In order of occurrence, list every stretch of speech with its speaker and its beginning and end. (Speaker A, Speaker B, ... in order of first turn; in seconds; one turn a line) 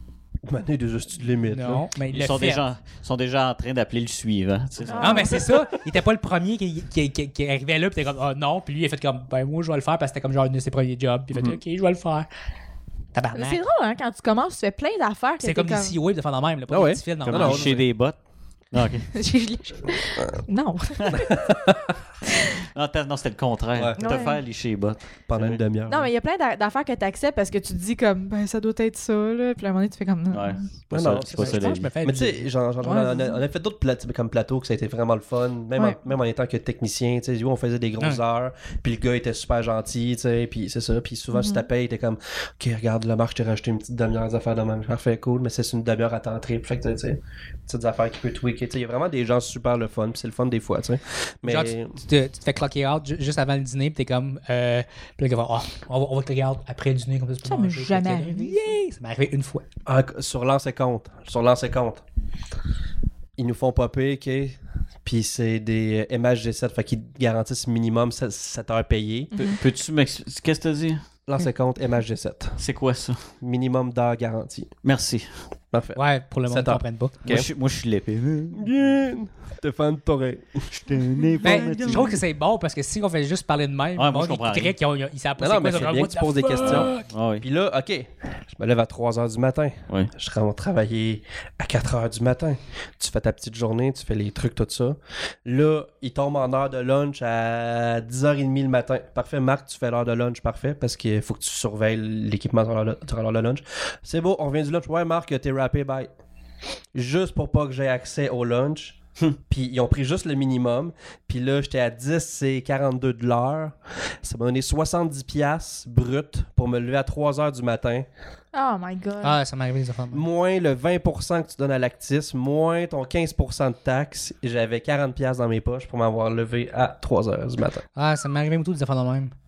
Speaker A: 0.5-1.9
Speaker B: 1.4-2.6
Speaker C: 2.1-5.4
Speaker D: 4.9-5.5
Speaker A: 4.9-5.6
Speaker B: 5.0-12.3
Speaker B: 13.1-13.6
Speaker D: 13.3-16.0
Speaker B: 15.4-17.8
Speaker A: 16.7-17.9
Speaker C: 17.3-18.2
Speaker C: 18.7-19.1
Speaker D: 19.1-21.3
Speaker C: 21.0-21.3
Speaker A: 21.1-21.9
Speaker C: 22.7-25.6
Speaker A: 23.8-24.2
Speaker D: 24.0-24.4
Speaker A: 25.3-26.1
Speaker D: 25.9-30.6
Speaker C: 30.3-31.9
Speaker A: 30.9-52.0
Speaker B: 31.3-32.5
Speaker D: 32.8-33.4
Speaker D: 41.3-41.7
Speaker B: 51.5-59.6
Speaker D: 57.4-58.6
Speaker A: 59.9-62.0
Speaker A: 63.4-69.6
Speaker D: 69.3-69.6
Speaker C: 69.6-71.0
Speaker A: 71.3-72.6
Speaker C: 72.6-73.2
Speaker A: 73.4-74.7
Speaker C: 74.8-75.3
Speaker A: 75.7-77.5
Speaker B: 76.0-77.1
Speaker C: 77.2-78.9
Speaker A: 78.5-80.7
Speaker C: 80.7-82.2
Speaker B: 81.4-87.1
Speaker D: 81.4-82.1
Speaker C: 84.0-84.8
Speaker A: 85.4-106.1
Speaker C: 86.6-87.5
Speaker A: 107.0-118.1
Speaker D: 118.5-119.4
Speaker B: 119.2-120.3
Speaker A: 120.1-127.8
Speaker B: 128.0-129.3